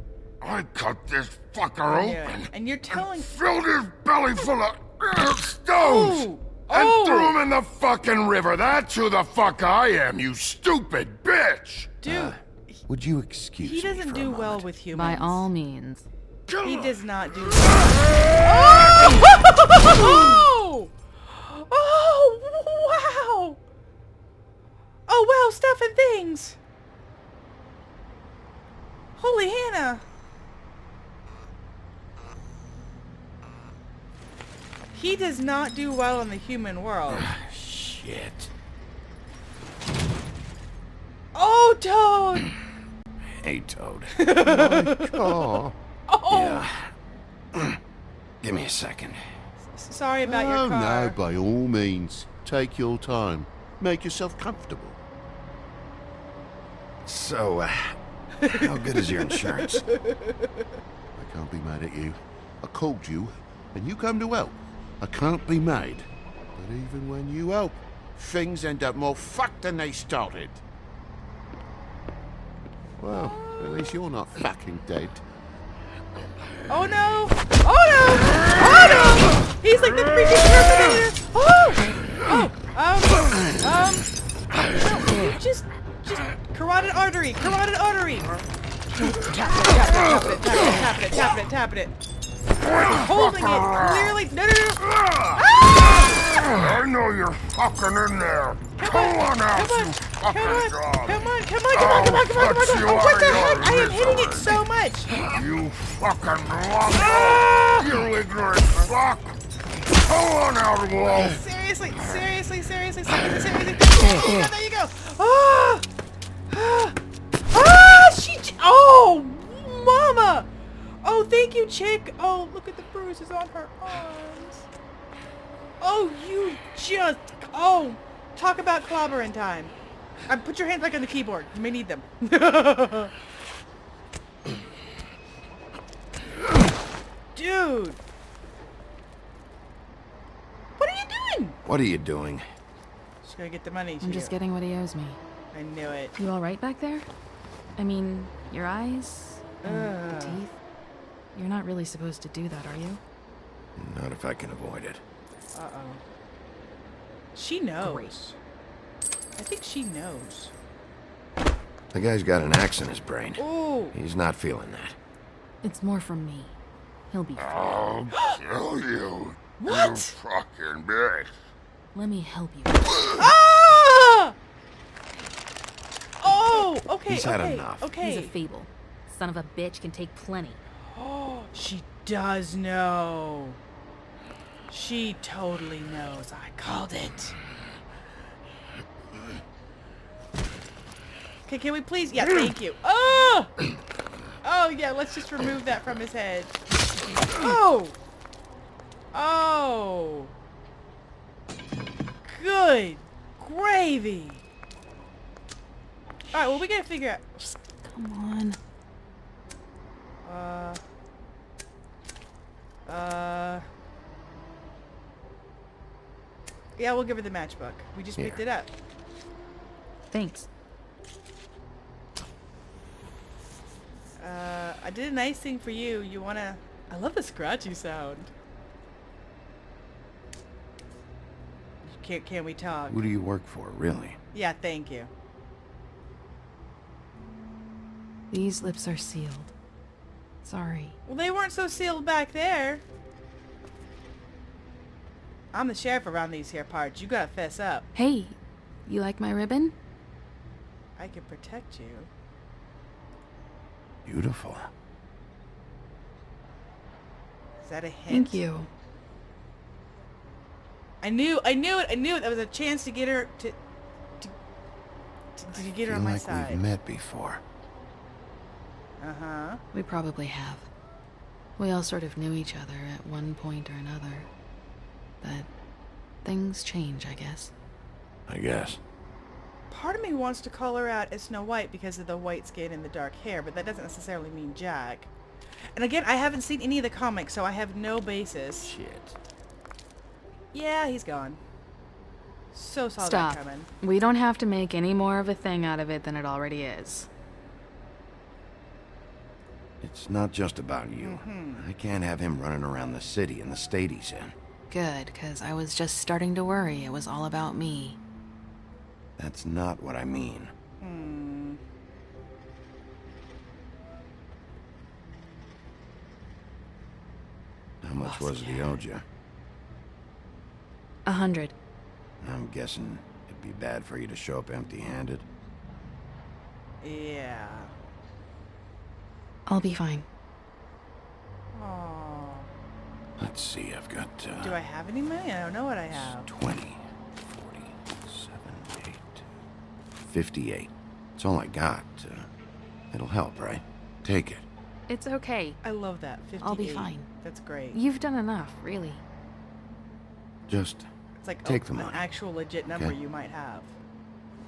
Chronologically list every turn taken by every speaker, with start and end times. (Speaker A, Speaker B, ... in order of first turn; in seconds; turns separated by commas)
Speaker A: 0.4-12.0, Speaker B: 1.9-3.3, Speaker B: 5.8-7.4, Speaker B: 12.0-12.8, Speaker C: 12.1-14.7, Speaker B: 13.6-15.5, Speaker D: 14.9-16.1, Speaker A: 16.5-16.9, Speaker B: 16.6-23.6, Speaker B: 25.1-26.6, Speaker B: 29.2-30.0, Speaker B: 34.9-37.3, Speaker C: 37.1-38.5, Speaker B: 41.3-42.5, Speaker C: 43.2-44.3, Speaker B: 44.1-45.5, Speaker E: 44.4-45.7, Speaker B: 46.1-46.7, Speaker C: 46.3-46.9, Speaker C: 47.5-47.8, Speaker C: 48.4-49.2, Speaker B: 49.6-51.1, Speaker E: 50.2-55.0, Speaker C: 57.0-59.9, Speaker B: 58.4-60.5, Speaker E: 61.1-70.6, Speaker E: 73.0-75.2, Speaker B: 73.1-73.9, Speaker B: 76.7-84.1, Speaker B: 84.7-88.4, Speaker B: 89.2-92.0, Speaker A: 92.6-94.2, Speaker B: 92.7-96.5, Speaker A: 94.9-104.6, Speaker B: 98.8-105.2, Speaker A: 105.2-109.4, Speaker B: 106.9-108.1, Speaker A: 110.0-111.4, Speaker B: 111.1-115.8, Speaker B: 116.5-117.0, Speaker B: 117.5-120.5, Speaker B: 121.0-124.7, Speaker B: 125.8-129.7, Speaker B: 130.3-133.1, Speaker B: 137.3-138.0, Speaker B: 140.8-141.6, Speaker C: 141.6-142.4, Speaker B: 143.2-144.3, Speaker D: 144.0-145.2, Speaker B: 145.5-146.1, Speaker D: 146.2-147.1, Speaker D: 147.8-150.6, Speaker B: 149.6-150.4, Speaker D: 151.3-153.0, Speaker C: 153.8-155.0, Speaker B: 155.5-156.0, Speaker B: 157.3-158.3, Speaker D: 157.8-158.3, Speaker B: 159.4-160.5, Speaker C: 161.9-165.0, Speaker B: 163.4-163.9, Speaker D: 165.6-166.6, Speaker D: 167.1-167.8, Speaker A: 167.4-171.4, Speaker B: 168.1-168.4, Speaker B: 169.6-170.1, Speaker D: 171.9-173.1, Speaker B: 173.2-174.3, Speaker B: 176.2-178.3, Speaker C: 177.1-177.9, Speaker D: 178.0-180.6, Speaker B: 180.8-183.6, Speaker B: 184.7-187.3, Speaker B: 191.5-193.5, Speaker B: 194.4-196.6, Speaker B: 197.3-198.0, Speaker B: 199.1-200.3, Speaker B: 202.2-204.4, Speaker B: 206.3-207.5, Speaker D: 207.8-208.6, Speaker B: 210.2-210.8, Speaker B: 212.8-213.6, Speaker B: 216.8-218.7, Speaker D: 220.1-220.5, Speaker B: 224.2-228.3, Speaker B: 231.8-233.0, Speaker C: 232.9-234.2, Speaker B: 234.3-235.1, Speaker D: 238.3-239.5, Speaker D: 240.4-241.0, Speaker B: 241.1-242.8, Speaker B: 245.5-247.9, Speaker D: 247.9-249.7, Speaker B: 251.0-252.1, Speaker C: 254.0-254.7, Speaker B: 257.6-258.4, Speaker D: 258.1-258.7, Speaker B: 261.0-263.6, Speaker B: 265.4-266.6, Speaker C: 265.7-267.4, Speaker B: 269.0-269.6, Speaker D: 269.7-270.7, Speaker D: 271.6-274.3, Speaker D: 275.2-275.5, Speaker D: 276.2-277.5, Speaker C: 278.3-278.8, Speaker B: 279.7-285.1, Speaker B: 285.8-288.7, Speaker C: 288.6-289.2, Speaker B: 290.5-291.4, Speaker B: 292.5-293.7, Speaker D: 293.0-297.1, Speaker C: 299.8-304.3, Speaker B: 301.0-301.6, Speaker D: 304.7-308.0, Speaker C: 309.2-310.5, Speaker B: 310.8-311.6, Speaker C: 317.8-319.0, Speaker B: 318.0-318.8, Speaker D: 321.1-321.5, Speaker C: 322.2-325.2, Speaker B: 326.8-327.7, Speaker D: 329.5-330.1, Speaker B: 331.5-332.5, Speaker C: 333.2-334.6, Speaker B: 334.4-336.3, Speaker C: 335.9-339.2, Speaker C: 340.0-342.3, Speaker C: 342.9-344.5, Speaker D: 344.9-345.6, Speaker B: 345.6-347.8, Speaker D: 346.4-347.1, Speaker D: 347.7-349.0, Speaker C: 350.5-350.9, Speaker B: 351.2-353.7, Speaker C: 351.4-352.1